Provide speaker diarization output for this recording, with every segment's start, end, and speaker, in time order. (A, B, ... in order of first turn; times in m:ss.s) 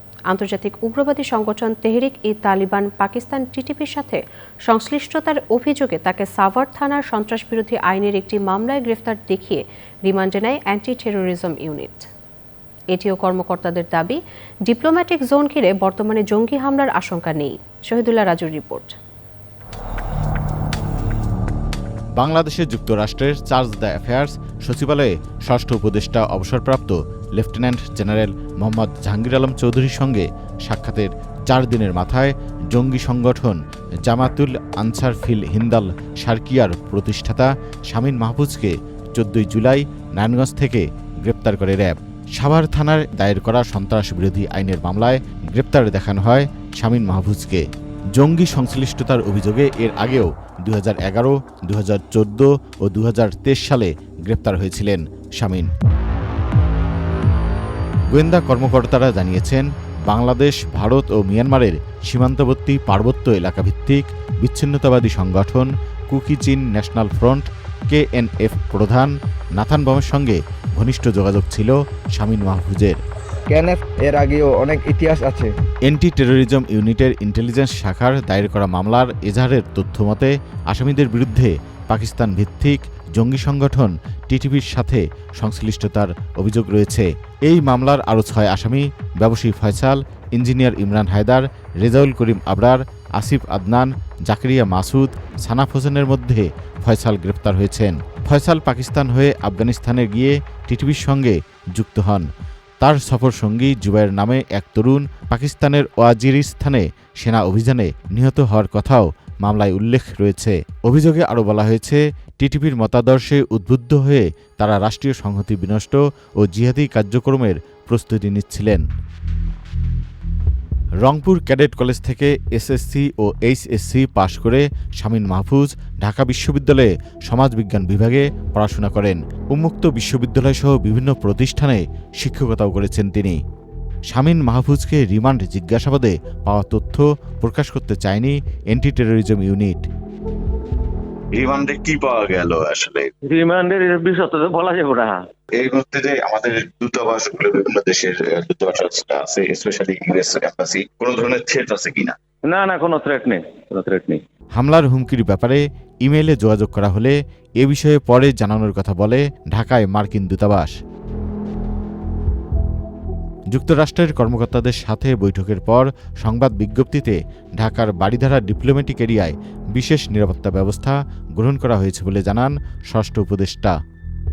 0:00.3-0:12.1 A
0:12.9-0:18.9 A
0:22.2-0:55.7 B
0:58.1-1:13.0 B
1:13.5-1:15.5 C
1:15.8-1:42.2 B
1:42.8-1:58.8 B
2:01.0-2:13.4 B
2:14.1-2:19.9 B
2:21.3-2:23.1 D
2:23.2-2:25.3 E
2:25.6-2:32.2 D
2:32.4-2:34.2 E
2:34.6-2:40.7 B
2:43.5-2:53.7 B